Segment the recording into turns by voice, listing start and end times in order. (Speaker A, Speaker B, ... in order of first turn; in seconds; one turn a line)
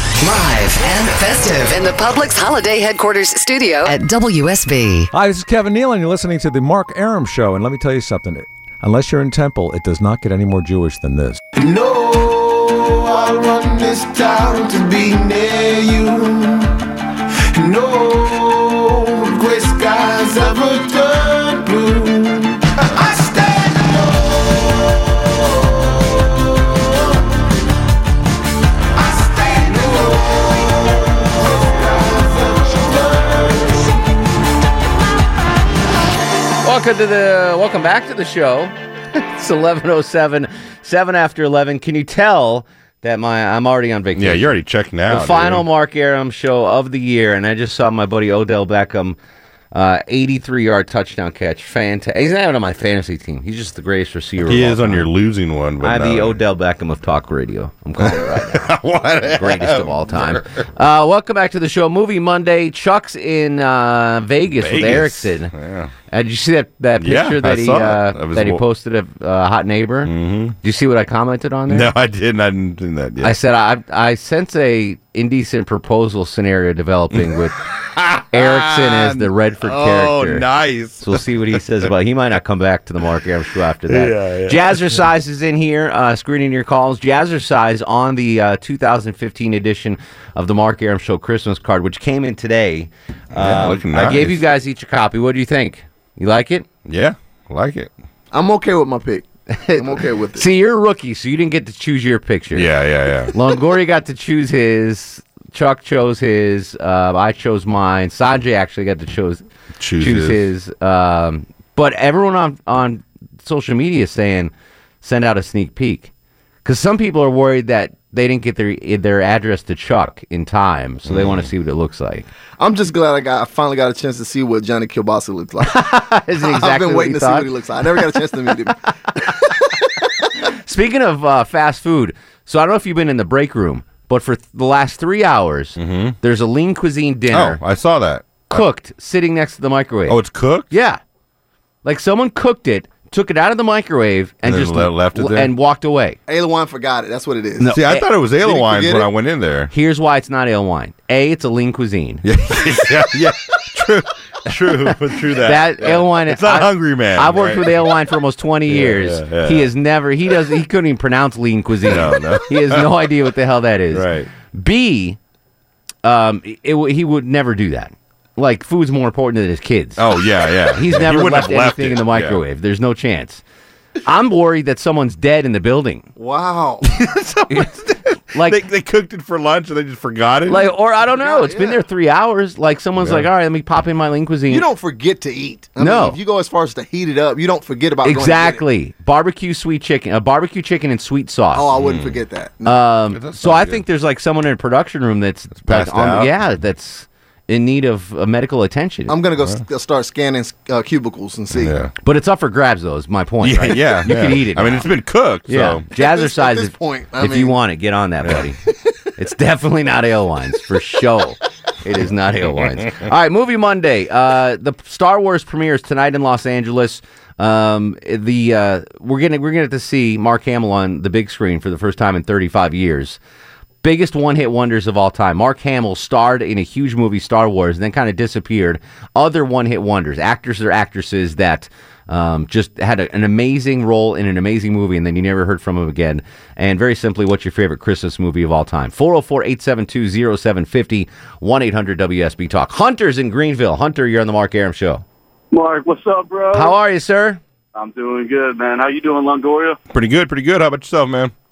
Speaker A: 0.2-5.1
Speaker B: 5.1-11.4
Speaker C: 11.6-16.7
Speaker C: 17.5-27.2
Speaker C: 29.0-33.9
Speaker D: 36.6-44.5
Speaker E: 44.2-45.7
Speaker D: 45.1-49.2
Speaker D: 49.7-55.1
Speaker E: 54.5-56.4
Speaker D: 55.8-58.7
Speaker E: 58.0-60.4
Speaker D: 59.3-65.5
Speaker E: 64.5-65.9
Speaker D: 66.1-71.9
Speaker E: 67.0-68.6
Speaker E: 70.0-70.5
Speaker E: 71.7-73.3
Speaker D: 73.2-77.6
Speaker E: 77.8-81.6
Speaker D: 78.3-80.5
Speaker D: 81.0-96.7
Speaker E: 83.9-85.0
Speaker E: 93.3-94.4
Speaker E: 96.8-97.9
Speaker F: 98.3-100.5
Speaker D: 99.5-102.7
Speaker E: 102.5-103.3
Speaker D: 103.3-109.4
Speaker E: 109.8-110.4
Speaker D: 110.0-116.1
Speaker D: 116.6-122.3
Speaker E: 121.1-121.5
Speaker F: 122.6-125.8
Speaker D: 125.6-127.5
Speaker F: 126.4-128.8
Speaker D: 130.6-137.6
Speaker E: 135.8-136.2
Speaker E: 137.3-138.7
Speaker D: 138.5-140.2
Speaker E: 140.1-140.7
Speaker D: 140.7-141.0
Speaker D: 141.8-146.2
Speaker E: 144.5-145.5
Speaker F: 146.3-147.7
Speaker D: 147.6-148.1
Speaker E: 147.7-149.7
Speaker F: 148.4-149.1
Speaker D: 149.7-152.2
Speaker E: 152.2-157.9
Speaker D: 154.8-165.2
Speaker E: 158.7-159.7
Speaker E: 161.8-162.9
Speaker E: 163.9-164.3
Speaker D: 166.0-170.0
Speaker E: 170.0-172.4
Speaker D: 170.7-173.4
Speaker D: 174.0-176.1
Speaker F: 176.2-176.8
Speaker E: 177.1-180.7
Speaker D: 177.5-177.8
Speaker D: 178.3-178.6
Speaker D: 180.5-184.7
Speaker F: 181.1-181.8
Speaker E: 183.0-183.3
Speaker F: 184.5-188.6
Speaker D: 185.8-186.2
Speaker D: 188.0-191.7
Speaker F: 191.5-192.8
Speaker E: 191.8-192.2
Speaker D: 192.6-199.2
Speaker E: 193.1-193.8
Speaker E: 195.5-196.4
Speaker F: 199.1-201.8
Speaker E: 201.5-201.9
Speaker D: 202.0-204.9
Speaker E: 203.4-205.9
Speaker D: 205.5-208.6
Speaker F: 206.0-207.6
Speaker D: 209.2-223.2
Speaker D: 223.8-245.0
Speaker G: 245.5-246.7
Speaker D: 246.5-247.4
Speaker G: 247.8-249.8
Speaker E: 249.9-251.3